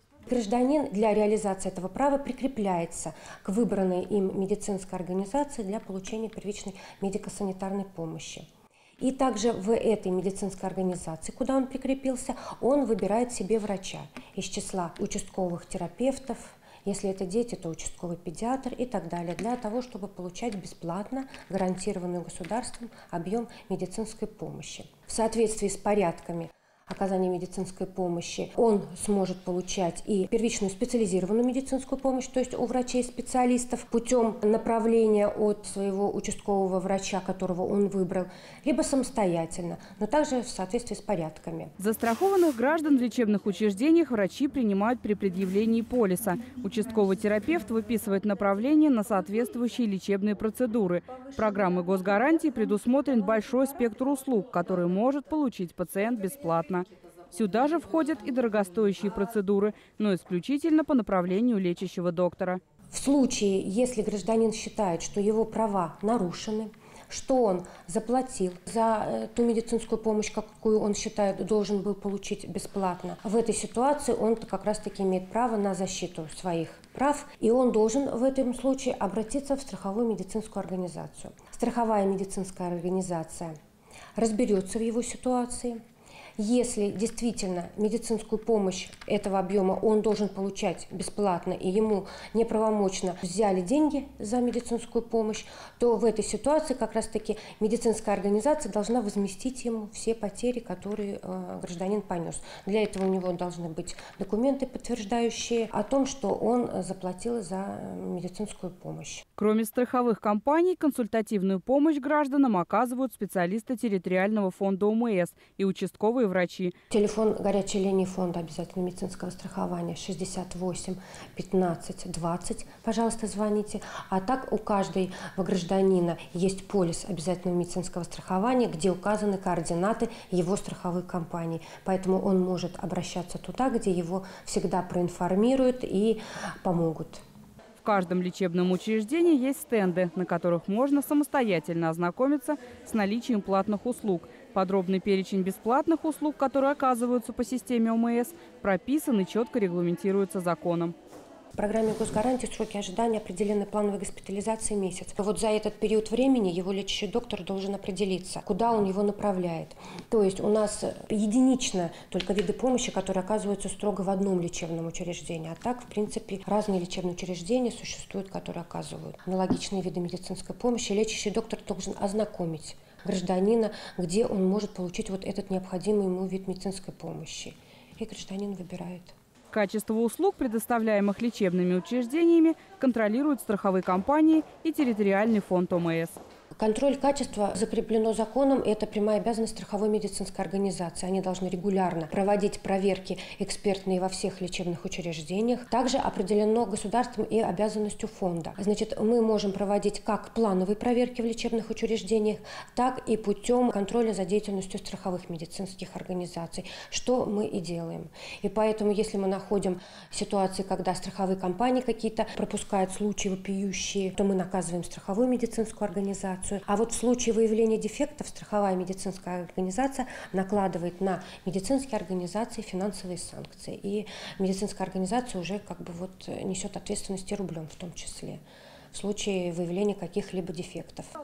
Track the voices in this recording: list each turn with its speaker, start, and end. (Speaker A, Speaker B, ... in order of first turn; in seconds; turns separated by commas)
Speaker A: 0.3-8.5, Speaker A: 9.0-41.7, Speaker B: 41.8-62.6, Speaker A: 62.9-83.6, Speaker A: 84.2-85.8, Speaker A: 86.4-109.2, Speaker B: 109.4-116.7, Speaker A: 116.9-137.2, Speaker B: 137.8-150.9, Speaker A: 151.6-179.1, Speaker B: 179.5-186.2, Speaker A: 186.6-231.1